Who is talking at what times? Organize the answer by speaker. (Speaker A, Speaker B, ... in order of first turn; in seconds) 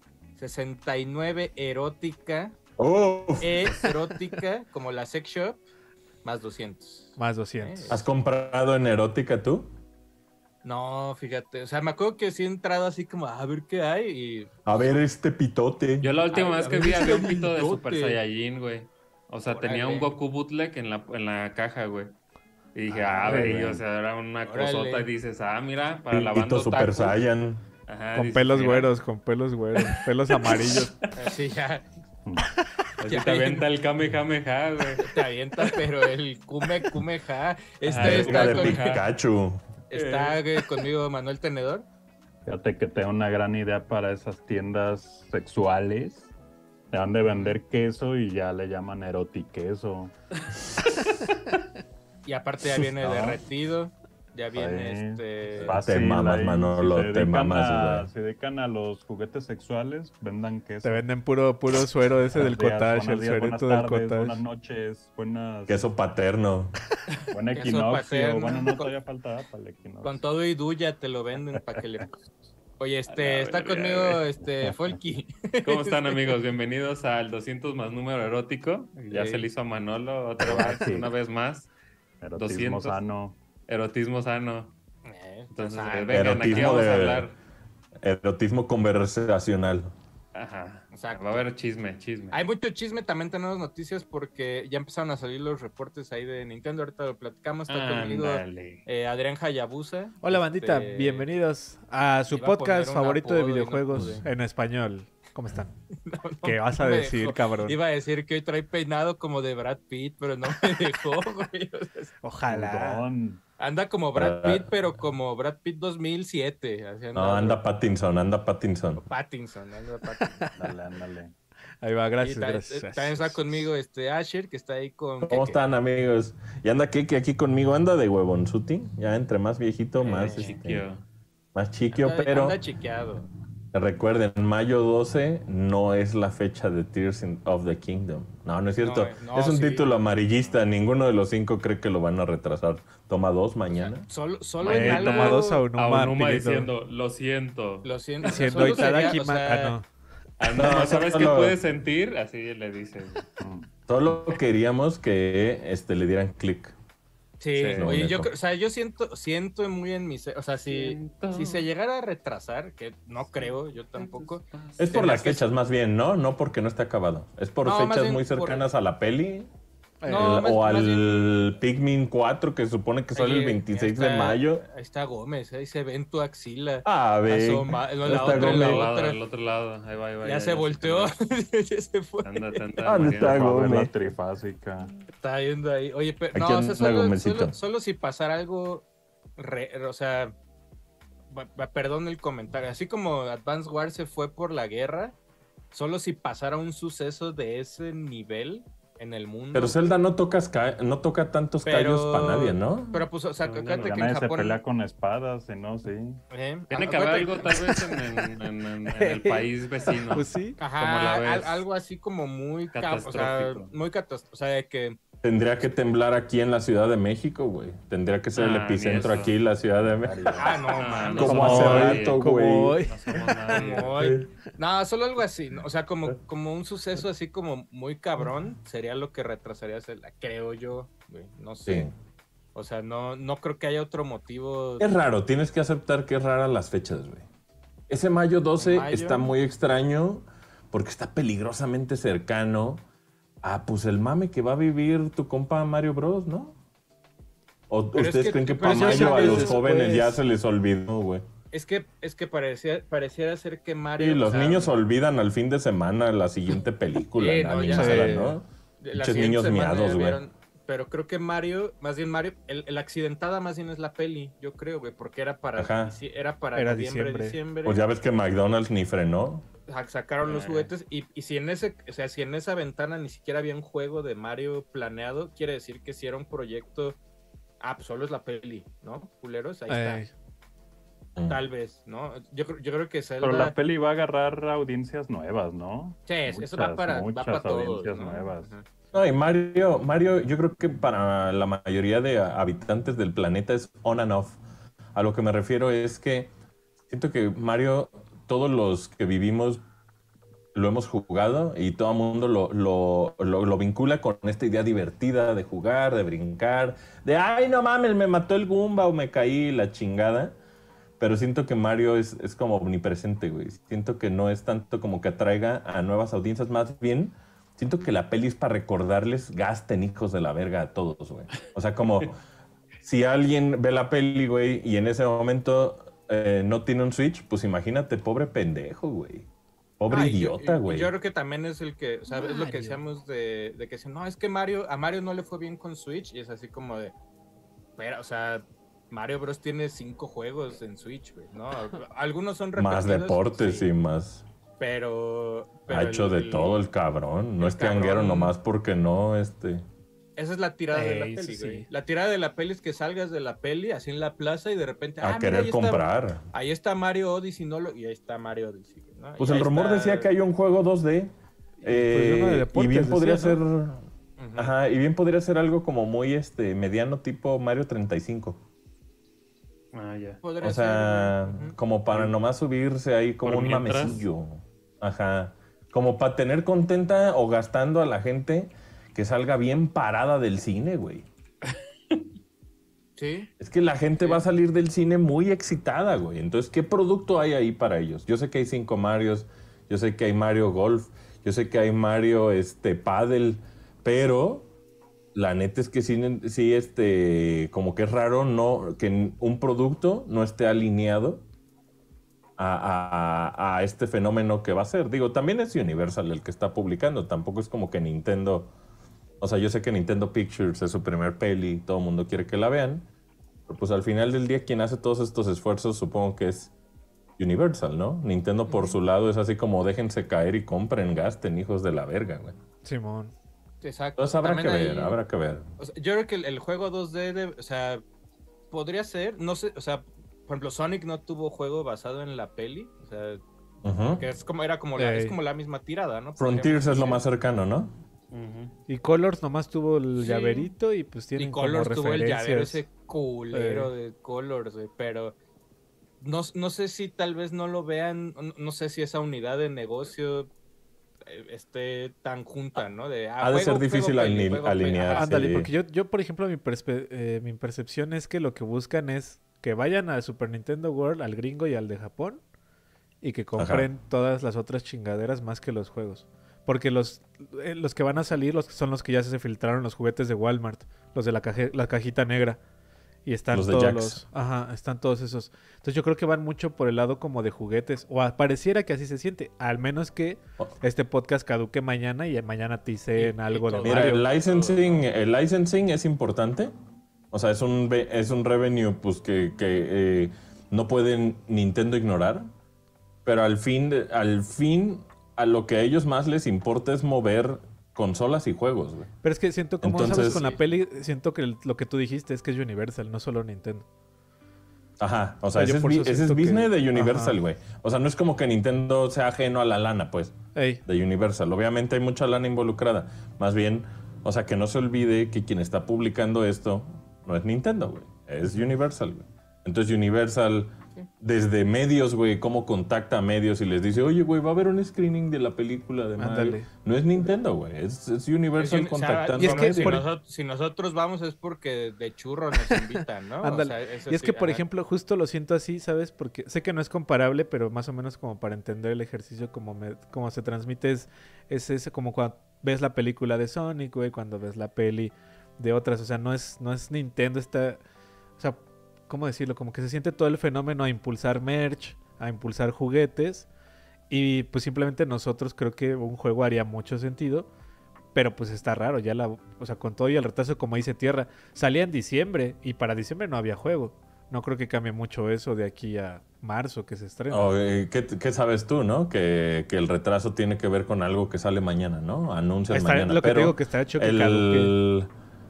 Speaker A: 0.4-2.5, 3.4-5.6, 6.2-8.0, 10.6-14.5, 16.3-18.2, 19.4-20.1, 23.2-23.6, 24.4-25.1, 31.1-31.9, 33.0-33.7, 35.0-39.0, 39.9-41.9, 52.2-55.8, 67.5-68.9, 70.0-72.2, 72.8-76.1, 79.1-79.5, 85.0-86.8, 90.9-91.4, 92.3-101.3, 102.3-104.3, 106.0-112.1, 113.6-117.6, 119.0-120.4, 122.2-125.6, 130.0-130.5, 131.9-133.3, 138.8-139.9, 143.8-145.6, 147.8-149.8, 157.4-165.4, 167.6-168.6, 170.1-171.5, 173.1-179.2, 180.2-182.6, 185.1-188.8, 189.4-190.3, 191.3-195.2, 195.7-199.9, 201.6-204.6, 206.3-208.0, 208.9-210.0, 210.6-215.0, 220.3-221.8, 223.5-231.9, 232.5-234.9, 238.6-239.3, 247.9-249.6, 251.5-254.7, 257.2-258.2, 258.8-267.8, 269.7-277.0, 277.6-280.1, 281.2-283.5, 286.1-288.6, 329.9-336.9, 337.8-343.7, 344.6-346.6, 347.4-348.3, 350.1-360.1, 364.2-364.6, 370.2-371.6, 383.0-383.3, 418.5-418.8, 423.6-425.0, 425.6-427.8, 428.5-433.2, 433.9-437.0, 439.9-440.5, 441.1-445.1, 446.0-450.3, 451.1-455.1, 482.9-484.9, 500.0-500.4, 528.4-534.4
Speaker B: 2.8-3.9, 7.9-9.7, 14.7-16.1, 26.1-27.6, 37.9-39.6, 55.6-58.1, 65.7-66.7, 86.1-87.3, 88.0-89.9, 103.9-104.2, 114.1-114.7, 117.1-119.0, 125.2-130.8, 131.5-132.6, 133.7-144.1, 150.5-151.6, 153.9-156.7, 157.7-158.3, 164.8-169.5, 170.1-174.6, 176.8-178.9, 182.8-183.9, 186.3-187.6, 199.5-203.1, 215.2-220.6, 221.1-222.8, 223.8-224.3, 231.7-231.9, 234.8-237.2, 237.9-242.8, 243.4-246.6, 247.7-251.2, 254.0-260.2, 265.6-266.0, 267.6-269.5, 281.1-281.4, 288.9-294.4, 294.9-296.3, 296.9-299.6, 300.5-310.4, 311.0-322.2, 322.8-329.3, 329.8-330.9, 342.6-344.2, 345.7-349.6, 355.0-356.3, 359.2-361.1, 361.6-363.9, 364.4-368.4, 370.4-381.1, 383.4-394.5, 395.1-401.2, 402.4-408.5, 409.2-412.9, 413.5-416.5, 417.2-422.4, 424.0-425.4, 433.6-434.0, 436.2-437.7, 453.2-455.5, 463.4-463.7, 473.3-474.0, 483.6-486.5, 487.1-492.3, 493.0-498.9, 499.6-500.3, 504.8-529.8, 567.1-574.9
Speaker C: 7.2-8.0, 23.3-23.6, 28.1-30.9, 60.8-64.4, 100.2-105.7, 106.4-107.8, 112.2-113.0, 120.2-120.7, 121.8-123.7, 144.6-146.7, 148.2-149.8, 170.0-170.4, 210.1-210.6, 221.2-223.3, 248.6-250.2, 257.7-258.4, 266.5-267.4, 279.7-280.1, 332.1-332.8, 350.7-351.7, 361.6-363.4, 422.6-423.1, 434.8-435.2, 438.7-442.6, 443.3-443.7, 454.9-462.2, 463.0-472.4, 473.0-484.1, 499.0-503.6, 505.3-507.1, 510.3-510.6, 526.0-526.4, 529.1-529.9, 533.2-547.6, 548.2-553.3, 553.9-557.3, 557.9-567.2, 572.5-574.5
Speaker D: 16.0-22.1, 22.7-27.2, 27.9-28.9, 29.7-31.1, 33.0-35.8, 37.8-39.0, 39.9-40.8, 73.1-74.2, 75.6-81.7, 82.3-83.0, 83.7-84.7, 85.5-87.3, 90.3-92.4, 97.7-98.8, 130.0-131.0, 144.6-149.2, 150.4-153.2, 157.5-157.9, 160.7-161.7, 163.3-164.9, 178.1-181.1, 182.2-183.4, 203.4-204.0, 206.7-211.6, 212.7-213.7, 218.3-219.3, 220.7-222.3, 222.8-224.0, 270.2-270.7, 369.7-370.2, 373.2-374.0, 438.1-438.6
Speaker E: 22.9-23.8, 42.5-46.3, 46.9-50.1, 53.0-53.4, 54.5-61.0, 62.3-65.9, 67.3-70.2, 74.6-74.9, 80.4-81.1, 82.2-83.4, 112.5-113.4, 120.5-121.3, 153.4-153.7, 183.2-184.9, 203.8-206.2, 220.0-220.6, 283.2-288.5